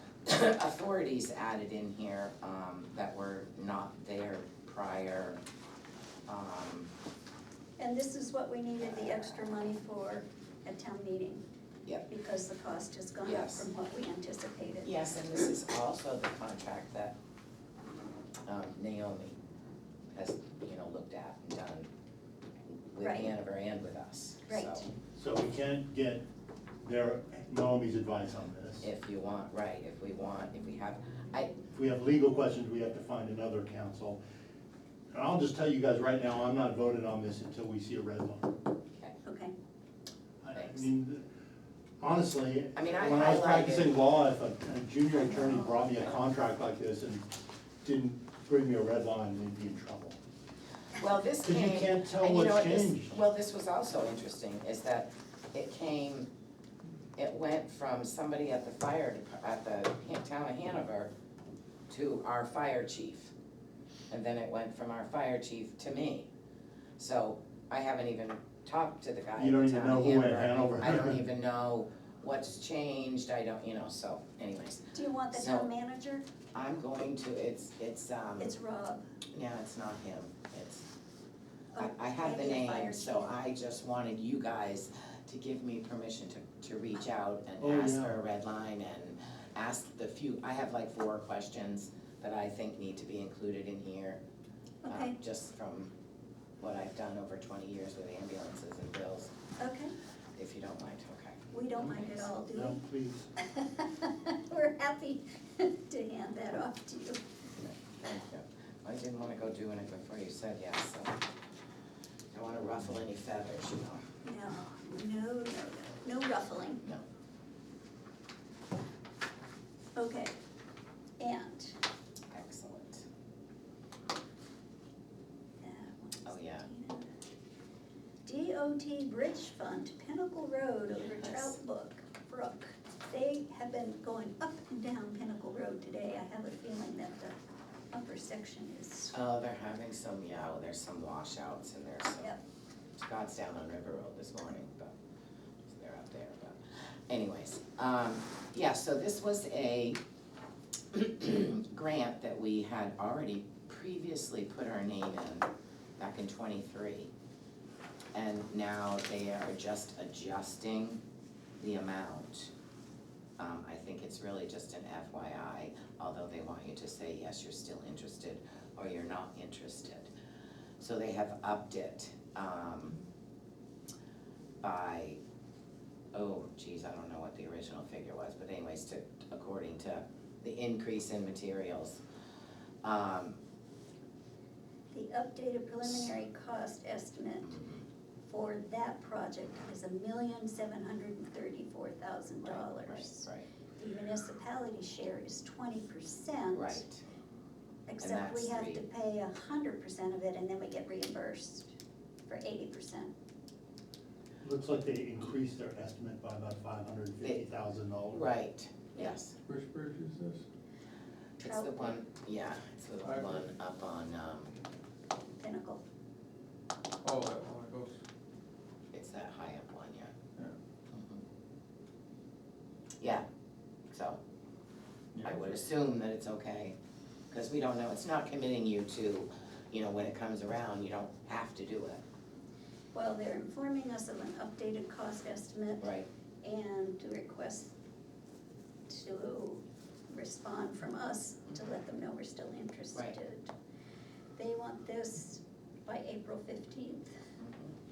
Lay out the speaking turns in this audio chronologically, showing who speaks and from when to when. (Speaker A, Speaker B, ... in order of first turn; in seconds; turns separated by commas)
Speaker A: 0.2-5.4, Speaker A: 6.3-6.9, Speaker B: 7.8-11.4, Speaker A: 8.8-9.4, Speaker B: 12.1-14.9, Speaker A: 13.2-13.7, Speaker A: 14.8-17.1, Speaker A: 18.5-19.4, Speaker A: 20.1-21.9, Speaker A: 22.7-24.9, Speaker B: 23.0-23.3, Speaker B: 24.5-24.9, Speaker C: 25.2-26.2, Speaker C: 26.8-28.9, Speaker A: 28.8-31.5, Speaker C: 31.7-34.2, Speaker C: 35.1-38.5, Speaker B: 39.2-39.5, Speaker C: 40.4-41.2, Speaker A: 40.5-40.9, Speaker C: 42.0-50.2, Speaker A: 42.8-43.9, Speaker A: 51.0-56.3, Speaker C: 51.4-53.1, Speaker A: 57.2-61.1, Speaker A: 61.9-63.3, Speaker A: 64.1-66.3, Speaker A: 67.0-75.7, Speaker C: 69.4-71.2, Speaker B: 74.9-76.2, Speaker A: 76.5-78.5, Speaker B: 78.4-79.0, Speaker A: 79.3-80.9, Speaker B: 81.7-83.3, Speaker A: 81.8-94.2, Speaker C: 87.6-88.2, Speaker B: 94.8-95.2, Speaker A: 94.9-95.9, Speaker A: 96.6-99.3, Speaker B: 99.6-99.9, Speaker A: 100.4-101.4, Speaker B: 101.5-102.8, Speaker C: 101.8-103.3, Speaker B: 103.4-107.2, Speaker A: 107.5-111.2, Speaker A: 112.3-114.0, Speaker B: 114.2-116.8, Speaker B: 120.0-120.3, Speaker B: 121.2-121.8, Speaker A: 122.3-123.0, Speaker B: 125.6-127.1, Speaker A: 126.2-126.7, Speaker B: 128.2-137.3, Speaker A: 131.0-131.6, Speaker B: 137.9-139.1, Speaker A: 139.1-142.3, Speaker A: 143.0-144.9, Speaker A: 145.7-150.0, Speaker A: 150.9-157.1, Speaker A: 158.1-161.0, Speaker A: 161.6-162.5, Speaker A: 163.4-170.1, Speaker A: 170.8-173.0, Speaker A: 174.6-175.2, Speaker A: 176.1-182.0, Speaker A: 182.8-183.4, Speaker B: 184.9-187.6, Speaker A: 187.5-187.8, Speaker B: 188.3-193.3, Speaker A: 192.4-193.5, Speaker B: 193.8-196.8, Speaker A: 196.5-197.0, Speaker B: 197.9-201.7, Speaker A: 198.0-198.8, Speaker B: 202.3-203.1, Speaker C: 204.4-208.3, Speaker A: 208.1-209.3, Speaker D: 209.5-210.4, Speaker A: 211.4-214.5, Speaker B: 211.4-212.0, Speaker D: 213.0-213.5, Speaker B: 215.4-215.8, Speaker D: 217.0-218.0, Speaker A: 218.9-220.1, Speaker A: 220.9-221.2, Speaker A: 223.9-224.2, Speaker A: 225.2-226.8, Speaker A: 227.3-232.0, Speaker B: 232.9-235.9, Speaker A: 235.8-236.1, Speaker B: 236.4-237.7, Speaker B: 238.9-243.5, Speaker B: 244.4-247.1, Speaker A: 247.4-247.8